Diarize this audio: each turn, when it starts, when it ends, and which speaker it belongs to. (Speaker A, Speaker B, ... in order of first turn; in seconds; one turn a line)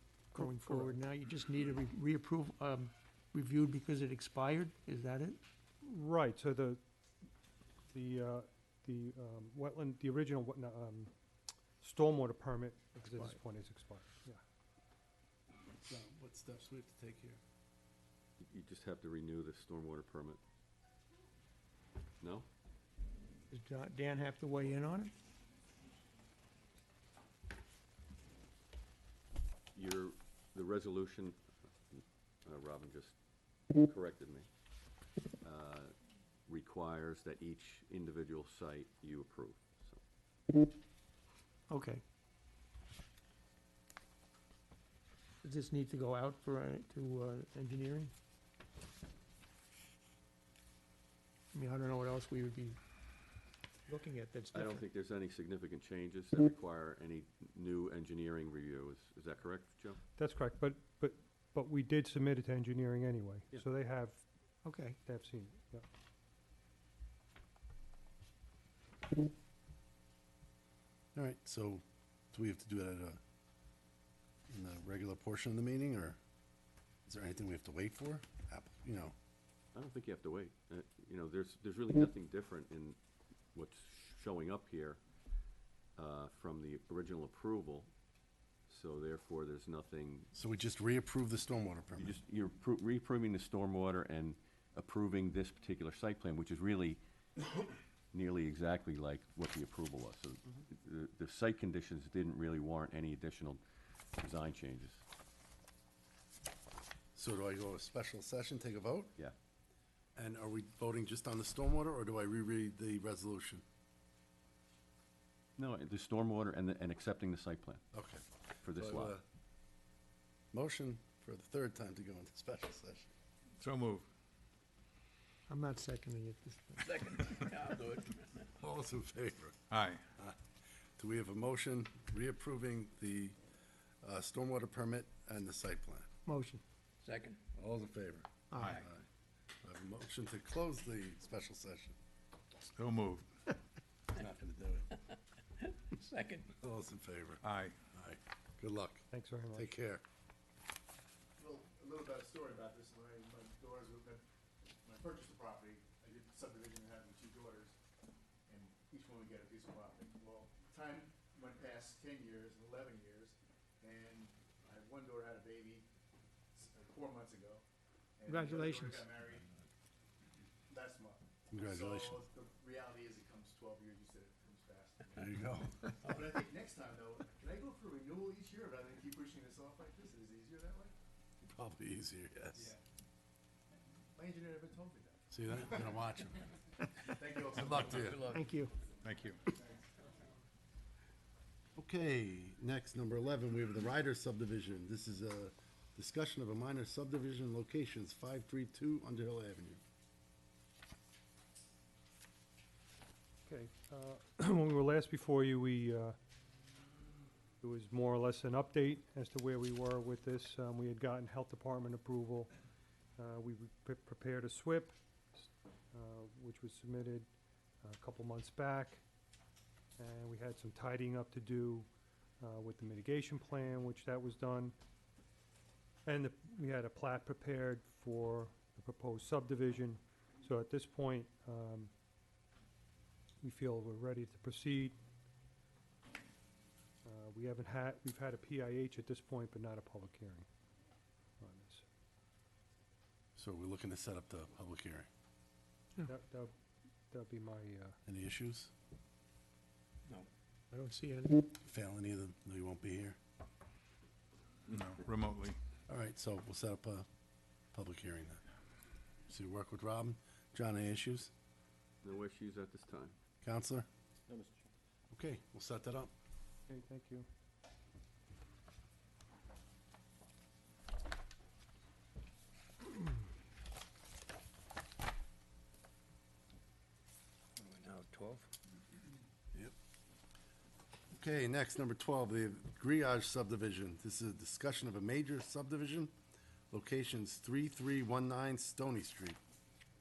Speaker A: 0.3-5.4
Speaker B: 0.4-1.0
Speaker B: 5.8-6.8
Speaker B: 7.9-11.1
Speaker B: 11.8-14.4
Speaker A: 13.0-13.4
Speaker C: 15.8-17.4
Speaker D: 18.4-20.4
Speaker D: 22.2-22.5
Speaker A: 23.5-25.1
Speaker D: 29.7-31.4
Speaker D: 31.9-33.1
Speaker D: 33.8-34.5
Speaker D: 35.4-35.9
Speaker D: 36.5-40.0
Speaker A: 41.7-42.0
Speaker A: 45.4-48.1
Speaker A: 51.5-52.8
Speaker A: 53.9-54.8
Speaker D: 54.5-60.0
Speaker B: 60.2-64.2
Speaker A: 64.6-65.0
Speaker B: 65.0-65.8
Speaker C: 71.1-73.2
Speaker C: 74.5-76.2
Speaker C: 77.0-79.1
Speaker D: 79.7-83.0
Speaker D: 83.5-85.0
Speaker D: 86.0-87.9
Speaker D: 88.7-90.3
Speaker C: 90.3-92.2
Speaker D: 92.0-97.0
Speaker D: 98.1-103.6
Speaker D: 104.2-105.0
Speaker C: 107.1-109.1
Speaker C: 110.2-113.6
Speaker D: 115.6-117.8
Speaker C: 117.9-119.2
Speaker D: 118.6-119.1
Speaker C: 120.5-123.1
Speaker E: 123.6-124.1
Speaker A: 125.5-127.2
Speaker F: 126.8-128.5
Speaker C: 128.6-129.6
Speaker E: 129.7-130.0
Speaker C: 131.0-133.4
Speaker C: 134.0-136.1
Speaker A: 136.2-136.6
Speaker F: 137.0-137.4
Speaker C: 137.5-139.0
Speaker E: 138.6-138.8
Speaker C: 139.6-142.0
Speaker E: 142.7-143.3
Speaker C: 144.1-144.9
Speaker F: 145.6-146.5
Speaker C: 146.6-147.4
Speaker E: 147.4-147.7
Speaker C: 147.9-150.0
Speaker B: 149.1-149.7
Speaker G: 151.4-154.2
Speaker G: 154.8-157.7
Speaker G: 158.5-165.9
Speaker G: 166.5-167.6
Speaker G: 168.2-169.5
Speaker A: 168.3-169.1
Speaker G: 170.7-180.9
Speaker C: 171.5-172.2
Speaker C: 175.1-175.9
Speaker C: 181.4-182.7
Speaker G: 184.1-185.9
Speaker C: 185.3-186.4
Speaker G: 187.0-188.2
Speaker C: 187.5-188.3
Speaker F: 188.0-188.5
Speaker A: 188.3-188.7
Speaker E: 189.0-189.4
Speaker C: 191.8-199.8
Speaker B: 203.4-206.2
Speaker B: 207.6-212.5
Speaker B: 213.2-217.3
Speaker B: 217.8-219.0
Speaker B: 220.0-221.9
Speaker B: 222.4-224.7
Speaker B: 226.1-231.9
Speaker B: 233.4-235.0
Speaker B: 237.0-240.5
Speaker B: 241.4-241.8
Speaker C: 243.3-245.1
Speaker B: 246.0-246.5
Speaker B: 247.1-248.0
Speaker C: 248.1-248.7
Speaker A: 250.1-251.5
Speaker C: 251.6-253.2
Speaker E: 254.7-255.6
Speaker C: 255.9-257.1
Speaker C: 257.7-258.4
Speaker C: 259.3-261.3
Speaker D: 262.0-263.1
Speaker C: 263.4-263.9
Speaker C: 265.1-266.1
Speaker B: 266.7-267.3
Speaker F: 277.6-278.5
Speaker C: 281.1-286.1
Speaker C: 286.7-289.4